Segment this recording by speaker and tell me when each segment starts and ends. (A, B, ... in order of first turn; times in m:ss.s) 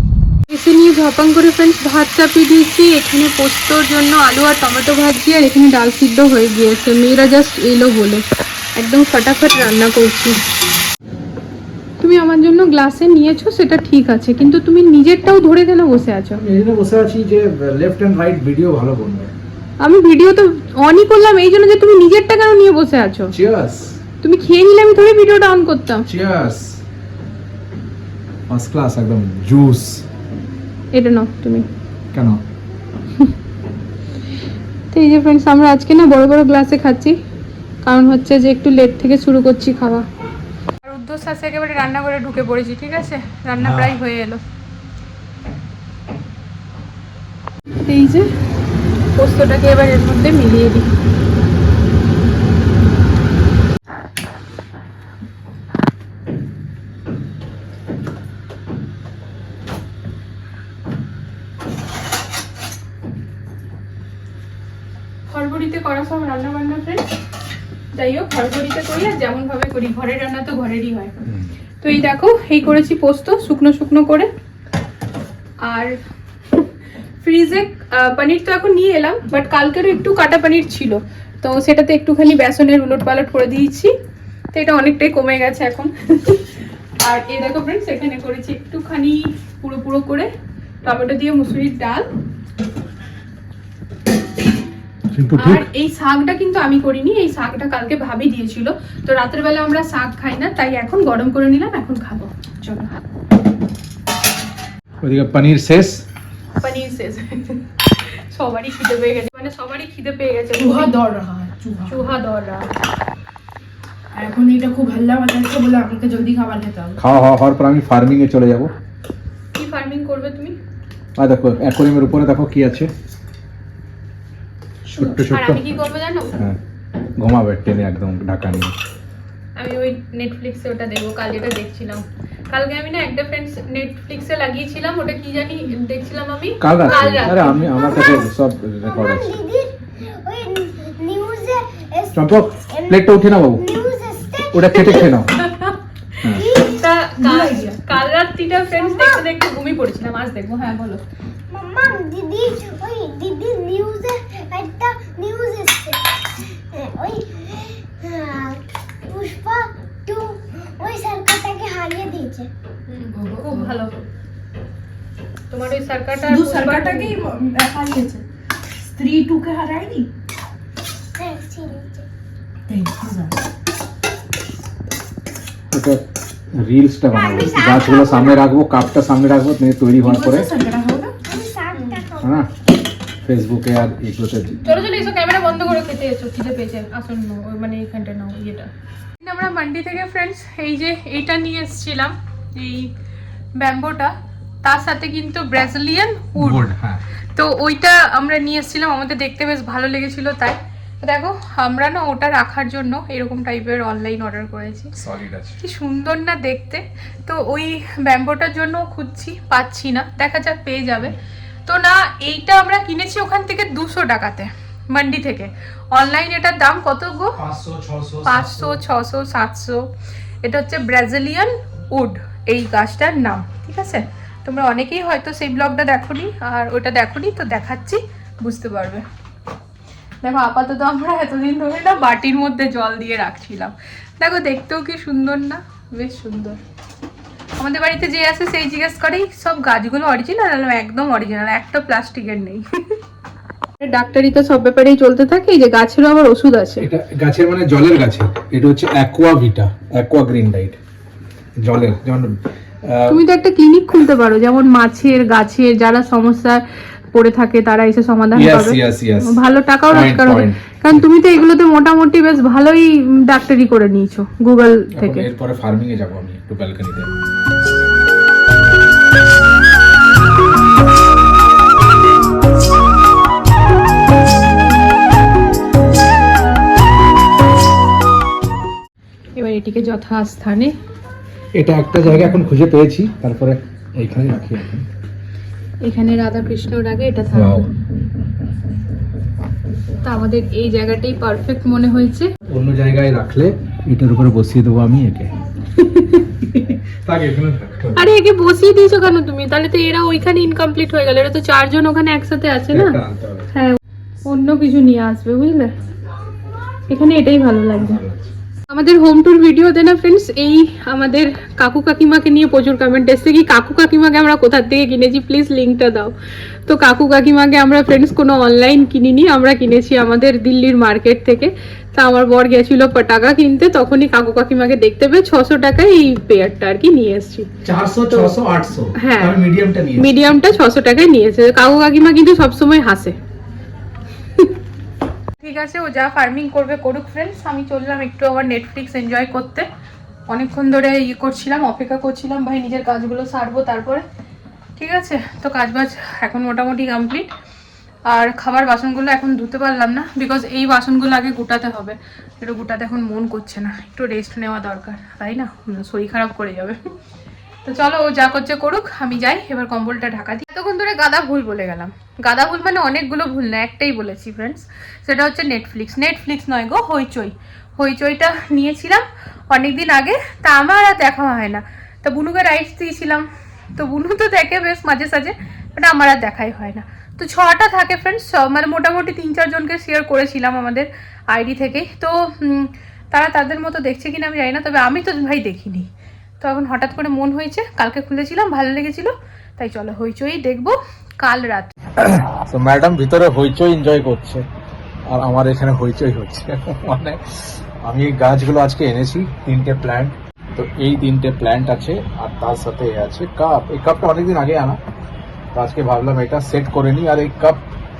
0:00.5-0:08.2 A
0:08.8-0:10.4 A
0:12.0-0:16.4 A
0:16.4-0:19.3 B
0:19.8-0:23.3 A
0:23.3-0:24.0 B
0:24.2-0:26.0 A
0:26.1-0:26.8 B
0:28.5-0:30.0 B
0:30.9-0:31.7 A
0:32.1-0:32.4 B
0:34.9-0:37.2 A
0:37.8-0:40.0 A
0:40.8-0:44.4 A
0:43.6-0:43.9 B
0:47.8-0:48.3 A
0:49.1-0:50.9 A
1:05.3-1:07.1 A
1:07.9-1:11.1 A
1:11.8-1:14.3 A
1:15.6-1:16.0 A
1:17.2-1:23.9 A
1:24.5-1:26.5 A
1:27.0-1:30.3 A
1:30.8-1:32.1 A
1:35.1-1:35.7 B
1:35.4-1:42.9 A
1:45.0-1:46.0 B
1:46.6-1:51.0 A
1:50.5-1:52.0 C
1:51.9-1:52.7 A
1:54.1-1:57.0 C
1:57.0-1:58.7 B
1:59.5-2:00.6 A
2:01.2-2:02.9 B
2:05.0-2:05.6 B
2:05.0-2:06.4 A
2:07.2-2:08.7 B
2:09.6-2:17.6 A
2:16.6-2:19.4 B
2:16.9-2:18.3 D
2:17.2-2:17.6 C
2:18.8-2:22.2 D
2:22.1-2:23.7 B
2:22.7-2:25.1 D
2:24.4-2:25.4 B
2:24.9-2:31.0 A
2:26.3-2:26.8 D
2:27.2-2:27.8 C
2:31.5-2:42.5 D
2:42.9-2:44.0 A
2:43.2-2:43.7 C
2:45.5-2:47.1 A
2:46.2-2:48.2 C
2:48.8-2:50.1 C
2:51.2-2:52.0 D
2:52.7-2:53.4 C
2:55.7-2:56.0 B
2:56.5-3:00.5 B
2:57.1-2:58.4 D
3:00.0-3:01.2 C
3:01.2-3:02.3 D
3:02.2-3:02.5 B
3:03.2-3:04.6 B
3:04.6-3:08.7 A
3:09.2-3:12.9 A
3:13.6-3:16.7 A
3:16.4-3:17.0 B
3:17.4-3:24.9 A
3:25.0-3:25.6 B
3:25.6-3:37.4 A
3:37.4-3:38.8 B
3:38.2-3:39.9 A
3:40.4-3:49.0 A
3:50.2-3:56.6 A
3:57.6-4:03.0 A
4:03.8-4:06.9 A
4:06.8-4:10.8 B
4:11.6-4:13.2 B
4:13.1-4:25.3 A
4:18.3-4:21.0 B
4:24.9-4:27.1 B
4:39.4-4:40.7 A
4:41.5-4:44.8 B
4:45.8-4:47.7 A
4:47.3-4:47.7 B
4:50.0-4:52.3 A
4:52.4-4:55.4 B
4:55.8-4:56.2 A
4:56.2-4:58.1 B
4:58.0-5:03.0 A
5:02.7-5:03.5 B
5:03.5-5:05.7 A
5:06.9-5:08.0 A
5:07.8-5:08.3 B
5:08.7-5:16.1 A
5:16.6-5:27.5 A
5:27.6-5:30.2 B
5:28.1-5:28.3 A
5:29.0-5:29.4 A
5:30.0-5:33.2 A
5:35.4-5:39.7 A
5:40.3-5:44.0 A
5:44.8-5:47.3 A
5:48.1-5:56.8 A
5:57.6-6:31.7 A
6:31.9-6:34.5 B
6:35.1-6:44.8 B
6:45.5-6:47.6 B